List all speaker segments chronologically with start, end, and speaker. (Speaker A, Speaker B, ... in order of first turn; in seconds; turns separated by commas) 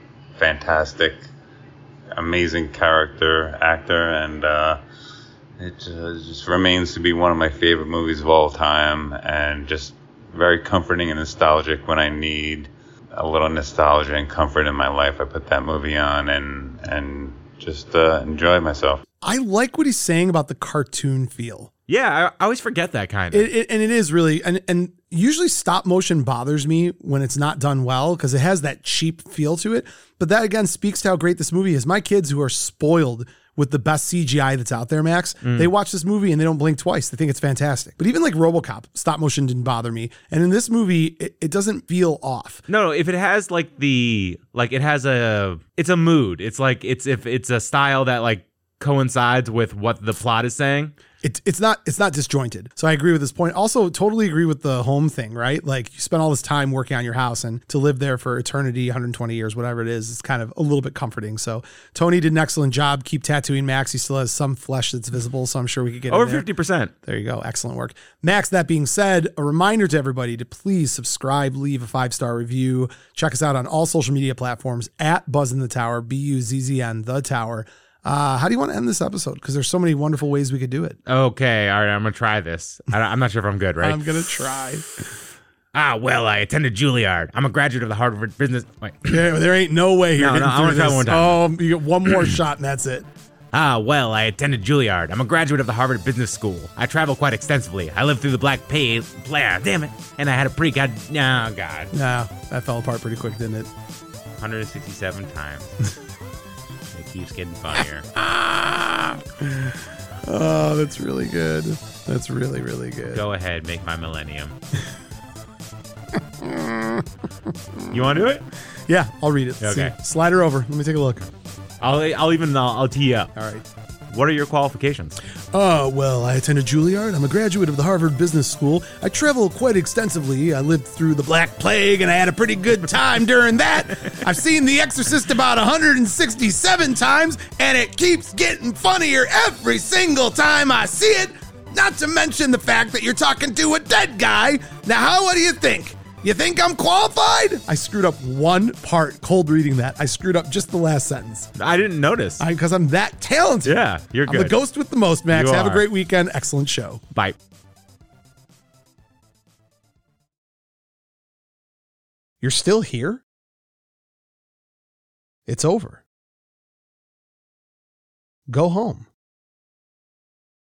Speaker A: 0.3-1.2, Speaker A: 2.1-4.8, Speaker A: 5.6-19.0, Speaker B: 19.2-21.7, Speaker C: 21.9-23.5, Speaker B: 23.3-42.6, Speaker C: 35.4-35.7, Speaker C: 42.7-50.9, Speaker B: 51.2-66.5, Speaker C: 66.1-66.9, Speaker B: 67.0-81.0, Speaker C: 81.1-84.0, Speaker B: 83.8-84.9, Speaker C: 85.7-89.2, Speaker B: 89.0-93.1, Speaker C: 90.2-91.4, Speaker C: 93.5-101.9, Speaker B: 101.9-103.7, Speaker C: 104.3-105.7, Speaker C: 106.9-108.1, Speaker B: 108.1-113.2, Speaker C: 113.1-114.6, Speaker B: 116.1-118.2, Speaker C: 117.9-118.5, Speaker B: 118.9-121.3, Speaker C: 119.6-119.9, Speaker C: 121.8-123.3, Speaker B: 123.3-123.6, Speaker C: 124.1-125.2, Speaker B: 125.5-151.5, Speaker C: 151.6-152.4, Speaker B: 152.4-157.0, Speaker C: 153.6-154.6, Speaker C: 155.3-155.8, Speaker B: 162.4-163.2, Speaker B: 165.5-166.0, Speaker B: 168.5-169.1